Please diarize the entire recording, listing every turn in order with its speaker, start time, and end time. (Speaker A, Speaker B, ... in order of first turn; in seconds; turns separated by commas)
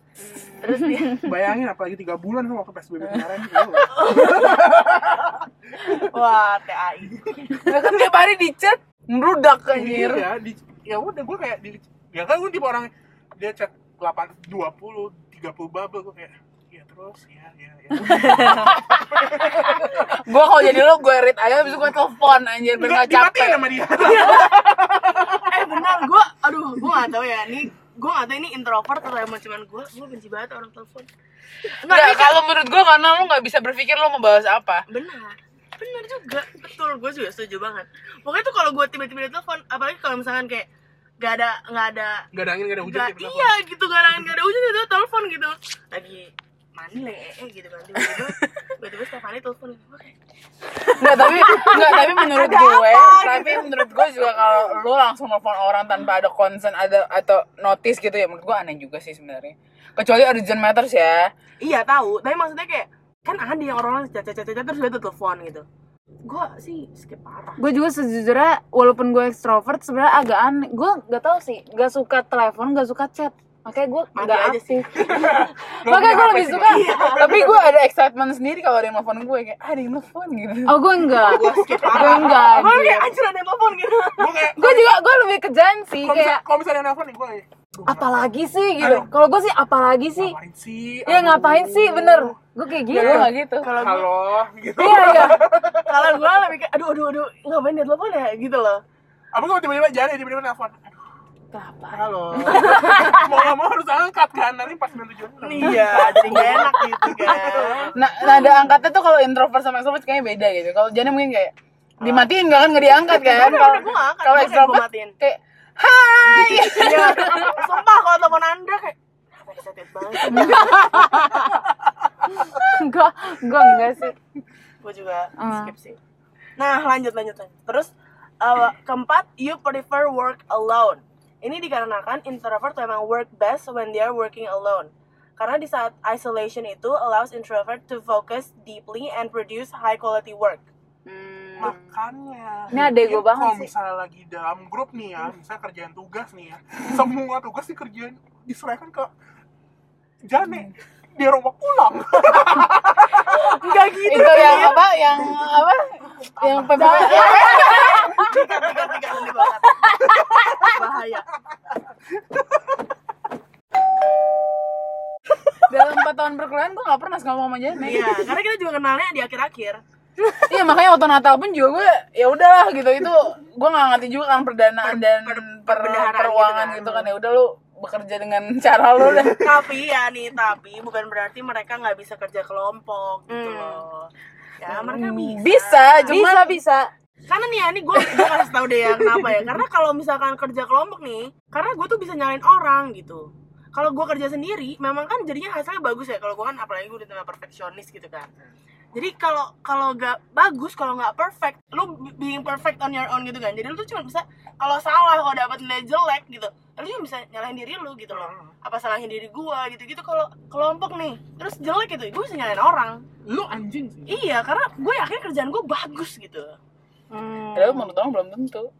Speaker A: 0.2-1.2, Speaker B: 0.6-1.3, Speaker C: 1.1-6.1, Speaker B: 3.9-5.0, Speaker B: 5.8-8.0, Speaker D: 7.6-10.3, Speaker C: 9.7-20.2, Speaker D: 18.2-23.7, Speaker C: 22.8-26.1, Speaker B: 24.0-31.1, Speaker B: 31.7-32.4, Speaker D: 31.9-34.8, Speaker B: 34.9-40.7, Speaker B: 41.2-42.2, Speaker C: 42.3-43.5, Speaker B: 42.8-50.1, Speaker B: 50.8-54.5, Speaker D: 50.9-61.3, Speaker A: 51.4-51.9, Speaker B: 61.6-65.6, Speaker B: 66.2-67.6, Speaker A: 67.6-77.3, Speaker B: 74.1-75.3, Speaker C: 74.9-77.6, Speaker B: 76.5-77.5, Speaker D: 77.2-81.0, Speaker A: 80.7-83.1, Speaker C: 81.1-82.7, Speaker B: 81.2-84.8, Speaker C: 84.1-84.8, Speaker A: 84.6-86.4, Speaker C: 86.0-89.1, Speaker A: 87.8-90.3, Speaker C: 90.1-92.3, Speaker A: 91.0-93.3, Speaker C: 92.9-96.2, Speaker D: 92.9-93.8, Speaker B: 93.6-94.1, Speaker A: 94.8-95.5, Speaker B: 95.7-98.8, Speaker C: 99.3-101.0, Speaker A: 101.5-103.4, Speaker C: 101.9-107.9, Speaker B: 105.4-107.9, Speaker D: 107.9-117.7, Speaker B: 113.1-115.1, Speaker C: 116.3-116.6, Speaker B: 116.7-121.2, Speaker A: 120.3-121.6, Speaker A: 122.3-124.2, Speaker B: 124.8-126.0, Speaker A: 125.4-125.7, Speaker B: 126.6-140.6, Speaker A: 141.1-141.9, Speaker C: 141.6-149.1, Speaker A: 142.7-143.7, Speaker C: 150.2-153.7, Speaker B: 153.2-154.8, Speaker D: 154.0-158.0, Speaker C: 156.4-158.9, Speaker B: 156.7-161.3, Speaker A: 159.9-160.6, Speaker D: 165.7-168.2, Speaker B: 167.8-169.8, Speaker D: 170.4-179.6, Speaker B: 174.8-177.1, Speaker B: 179.4-186.2, Speaker A: 183.3-183.8, Speaker D: 184.7-186.6, Speaker A: 186.1-186.9, Speaker B: 187.3-198.3, Speaker B: 198.9-213.0, Speaker C: 208.1-208.5, Speaker C: 213.2-214.2, Speaker B: 214.1-216.6, Speaker A: 217.1-217.9, Speaker D: 217.5-218.7